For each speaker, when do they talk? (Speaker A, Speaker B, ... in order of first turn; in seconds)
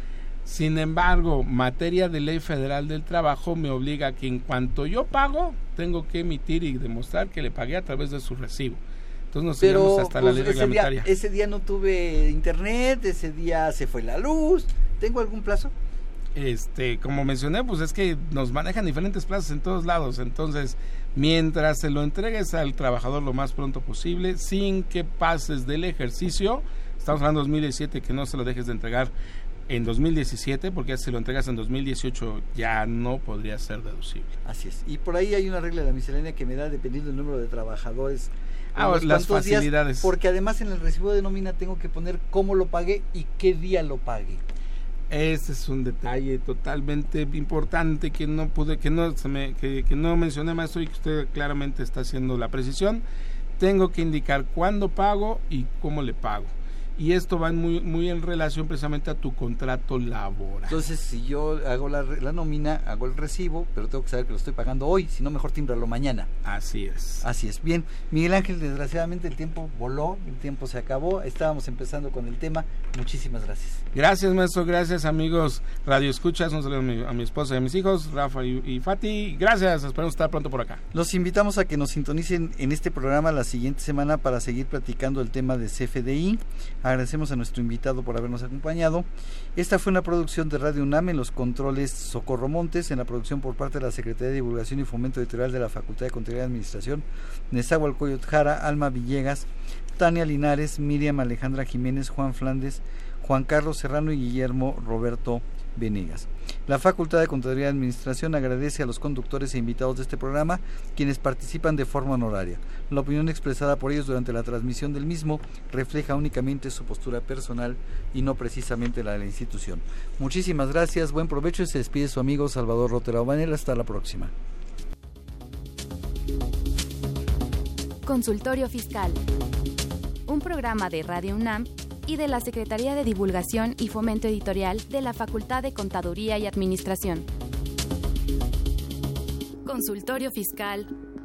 Speaker A: 0.5-11.1, 16.4-29.1, 29.7-34.3, 38.8-40.1, 45.1-53.0, 53.6-60.9, 66.5-67.2, 73.9-80.8
Speaker B: 9.6-15.7, 34.5-44.4, 60.7-66.3, 67.2-73.8, 80.9-124.3
Speaker C: 128.1-129.2, 130.3-137.3, 139.7-140.9